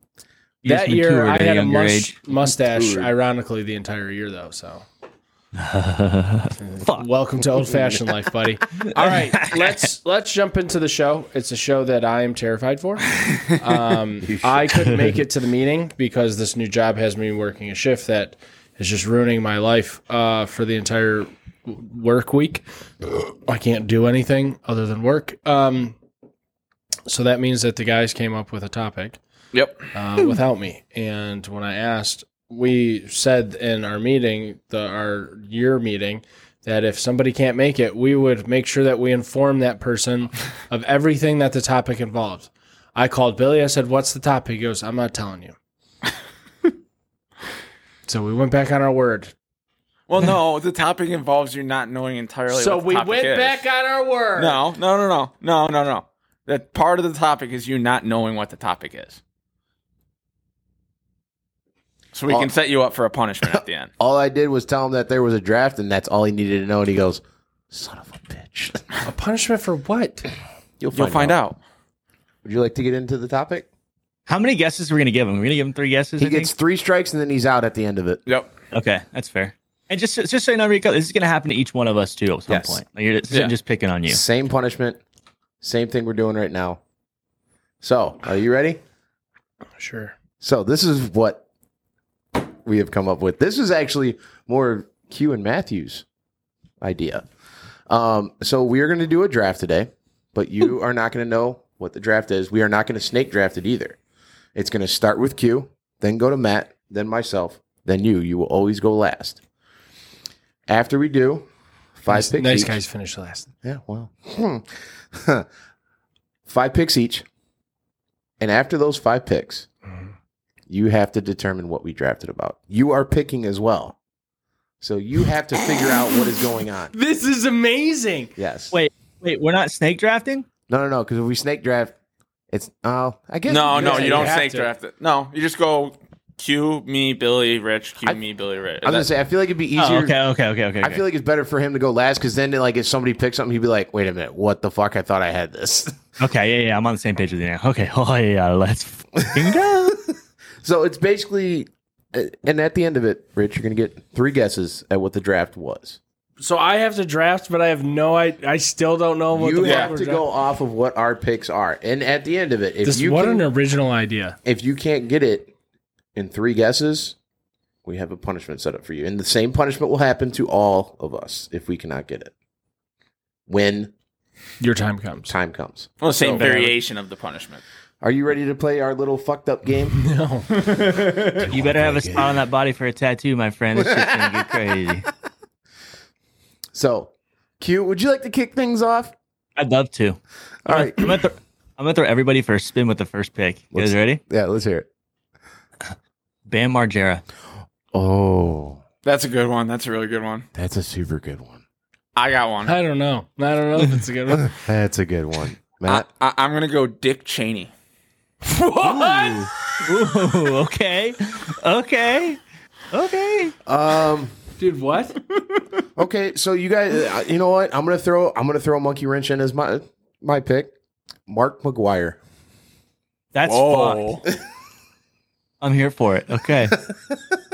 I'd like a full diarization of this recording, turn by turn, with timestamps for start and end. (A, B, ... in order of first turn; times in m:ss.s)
0:00.6-0:02.2 A
0:00.6-0:04.8 B
0:02.6-0:03.1 C
0:05.6-0:07.1 A
0:06.6-0:26.0 B
0:07.7-0:08.0 C
0:09.0-0:09.9 A
0:14.2-0:15.0 C
0:27.1-0:29.2 B
0:29.5-0:29.9 D
0:29.9-0:45.6 B
0:48.1-0:49.3 B
0:50.1-0:53.6 D
0:52.5-0:54.6 B
0:54.4-0:59.2 D
1:02.1-1:03.9 D
1:03.4-1:08.9 C
1:09.0-1:10.3 B
1:10.8-1:11.4 C
1:10.9-1:11.6 D
1:12.4-1:13.7 C
1:14.3-1:16.5 A
1:16.2-1:18.2 C
1:18.7-1:24.2 A
1:22.5-1:22.8 C
1:24.1-1:25.0 C
1:25.6-1:26.8 C
1:27.8-1:28.8 C
1:29.8-1:30.2 B
1:30.4-1:31.4 C
1:32.4-1:36.0 C
1:36.8-1:37.3 C
1:37.9-1:44.0 C
1:44.6-1:49.4 C
1:50.7-1:52.8 C
1:52.1-1:53.5 B
1:53.6-1:55.5 C
1:56.5-1:57.3 C
1:58.4-1:59.7 C
2:00.7-2:04.0 C
2:04.8-2:06.9 C
2:06.9-2:08.3 B
2:08.4-2:08.8 C
2:08.7-2:10.5 A
2:10.7-2:11.9 C
2:12.5-2:14.4 C
2:13.5-2:19.1 D
2:13.7-2:14.7 B
2:18.8-2:20.2 C
2:19.8-2:21.0 A
2:20.8-2:26.0 C
2:26.2-2:30.0 A
2:30.6-2:36.0 C
2:36.4-2:40.2 B
2:39.3-2:43.5 C
2:39.6-2:39.9 D
2:42.8-2:44.4 B
2:44.4-2:45.5 C
2:46.2-2:47.2 C
2:47.8-2:52.3 C
2:53.5-2:53.9 C
2:54.6-2:55.3 B
2:55.3-2:56.7 C
2:56.0-2:57.6 D
2:56.2-2:56.7 B
2:58.0-3:00.0 C
3:00.0-3:00.5 B
3:00.6-3:01.4 D
3:01.1-3:02.4 C
3:01.5-3:05.1 A
3:03.8-3:04.7 C
3:06.7-3:09.1 C
3:09.6-3:14.2 A
3:10.7-3:11.2 C
3:13.7-3:14.9 C
3:16.5-3:17.2 A
3:17.9-3:18.8 C
3:19.0-3:20.5 D
3:20.6-3:21.6 C
3:22.2-3:22.8 D
3:22.6-3:24.6 B
3:24.3-3:26.1 C
3:25.9-3:27.7 D
3:28.4-3:29.5 B
3:28.9-3:32.4 A
3:29.0-3:29.5 C
3:32.9-3:33.5 A
3:33.7-3:34.3 C
3:34.6-3:35.2 B
3:36.0-3:40.7 C
3:41.3-3:42.2 C
3:43.3-3:44.2 A
3:43.4-3:44.2 D
3:45.6-3:46.8 A